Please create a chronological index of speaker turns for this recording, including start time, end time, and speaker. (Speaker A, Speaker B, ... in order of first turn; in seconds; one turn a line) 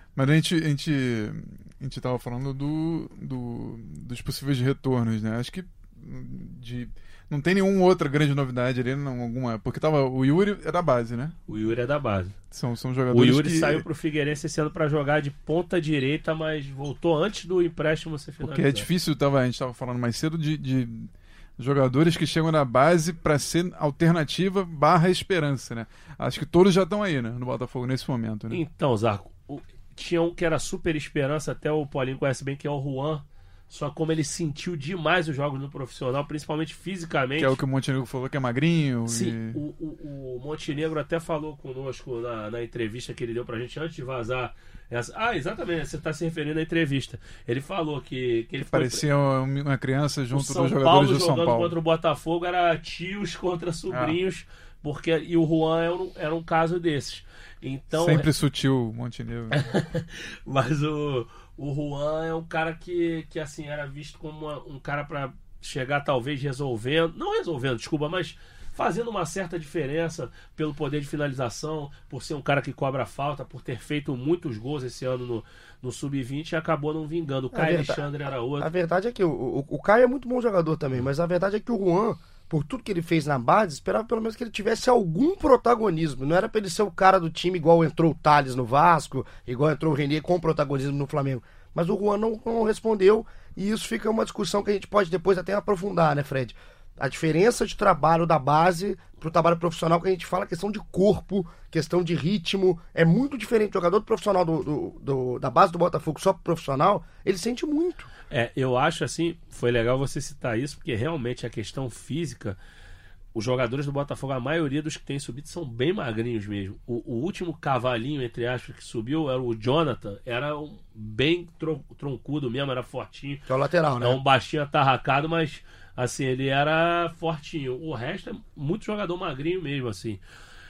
Speaker A: 0.1-11.4
Speaker B: 11.5-12.3
Speaker A: 12.5-13.8
Speaker B: 13.1-18.9
Speaker A: 18.4-28.6
Speaker B: 28.5-37.6
Speaker A: 37.4-39.6
Speaker B: 39.1-49.0
Speaker A: 48.6-51.7
Speaker B: 50.3-58.3
Speaker A: 53.9-54.2
Speaker A: 57.9-59.6
Speaker B: 59.5-78.7
Speaker C: 77.5-78.0
Speaker C: 78.6-108.1
Speaker B: 108.3-112.6
Speaker B: 113.3-123.4
Speaker C: 123.5-124.2
Speaker B: 124.0-130.2